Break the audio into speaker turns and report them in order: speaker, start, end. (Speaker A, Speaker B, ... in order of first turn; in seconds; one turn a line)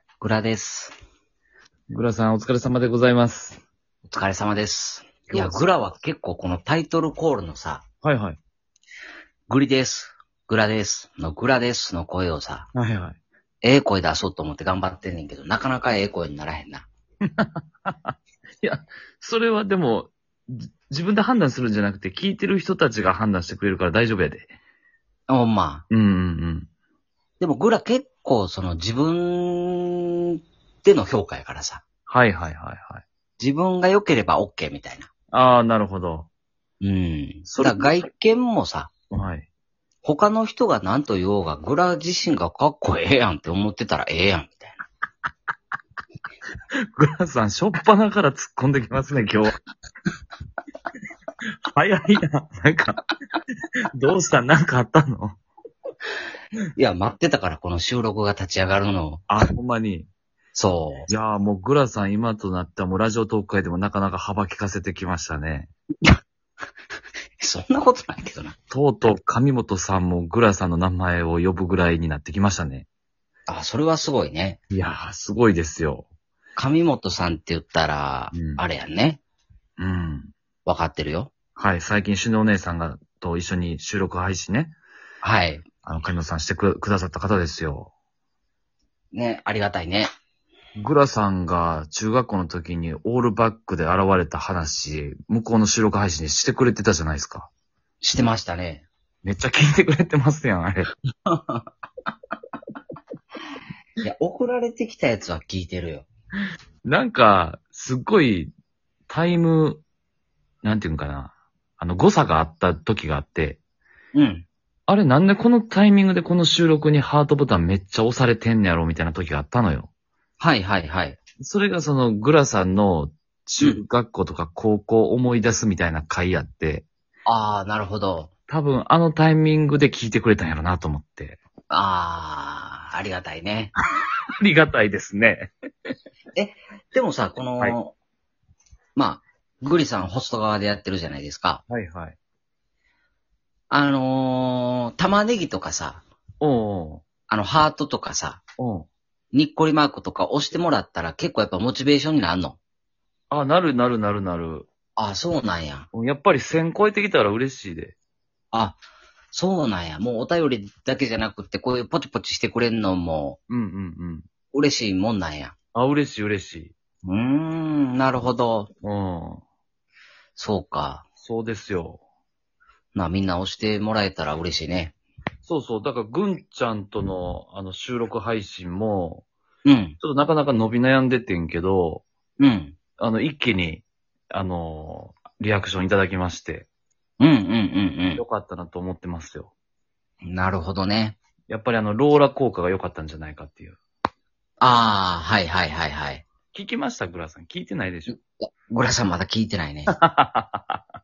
Speaker A: 0.2-0.9
Speaker B: 1.9-3.6
Speaker A: 4.1-7.8
Speaker B: 5.3-5.7
Speaker B: 8.0-8.4
Speaker A: 9.5-12.7
Speaker B: 12.8-13.2
Speaker A: 13.6-16.9
Speaker B: 17.4-24.5
Speaker A: 25.3-25.8
Speaker B: 25.9-26.7
Speaker A: 27.4-31.8
Speaker B: 32.1-33.0
Speaker A: 33.4-35.1
Speaker B: 35.3-36.3
Speaker A: 36.8-38.9
Speaker B: 37.5-38.0
Speaker B: 39.1-39.5
Speaker A: 40.0-44.8
Speaker B: 47.0-49.6
Speaker B: 51.7-53.1
Speaker B: 53.9-55.4
Speaker A: 56.8-59.3
Speaker B: 59.3-60.1
Speaker A: 60.5-61.1
Speaker B: 61.1-65.7
Speaker A: 67.4-68.6
Speaker B: 68.7-72.9
Speaker A: 73.5-74.6
Speaker B: 74.7-76.1
Speaker A: 76.6-79.2
Speaker B: 78.3-78.6
Speaker B: 79.8-80.3
Speaker A: 80.7-81.3
Speaker B: 81.6-84.7
Speaker A: 85.2-85.6
Speaker B: 85.8-87.9
Speaker A: 89.1-90.1
Speaker B: 90.8-97.5
Speaker A: 98.0-98.8
Speaker B: 99.2-100.9
Speaker A: 101.3-101.7
Speaker A: 104.0-106.1
Speaker B: 106.8-108.5
Speaker B: 109.1-109.8
Speaker B: 110.6-113.6
Speaker A: 114.2-114.5
Speaker B: 114.9-119.9
Speaker A: 120.4-121.2
Speaker B: 121.4-126.8
Speaker A: 127.3-128.3
Speaker B: 128.5-131.4
Speaker A: 131.7-133.7
Speaker B: 134.4-135.5
Speaker A: 136.3-137.9
Speaker A: 139.0-141.6
Speaker B: 141.7-142.2
Speaker A: 143.7-146.0
Speaker B: 146.4-147.0
Speaker A: 147.3-148.4
Speaker B: 148.6-148.9
Speaker A: 149.3-152.6
Speaker B: 153.3-154.7
Speaker A: 155.0-155.9
Speaker B: 155.9-157.9
Speaker A: 158.5-158.8
Speaker A: 159.3-163.4
Speaker B: 163.5-164.2
Speaker A: 164.5-165.5
Speaker B: 165.8-166.7
Speaker A: 167.0-168.7
Speaker B: 168.8-169.4
Speaker A: 170.4-171.0
Speaker B: 171.2-172.0
Speaker A: 172.9-174.9
Speaker B: 175.4-179.2
Speaker A: 179.7-180.0
Speaker B: 180.0-182.0
Speaker A: 182.4-182.7
Speaker B: 183.0-186.7
Speaker A: 187.2-188.2
Speaker B: 188.2-189.5
Speaker A: 190.2-191.2
Speaker B: 191.5-193.8
Speaker A: 194.6-196.2
Speaker B: 196.5-198.2
Speaker A: 198.1-199.9
Speaker B: 199.9-200.8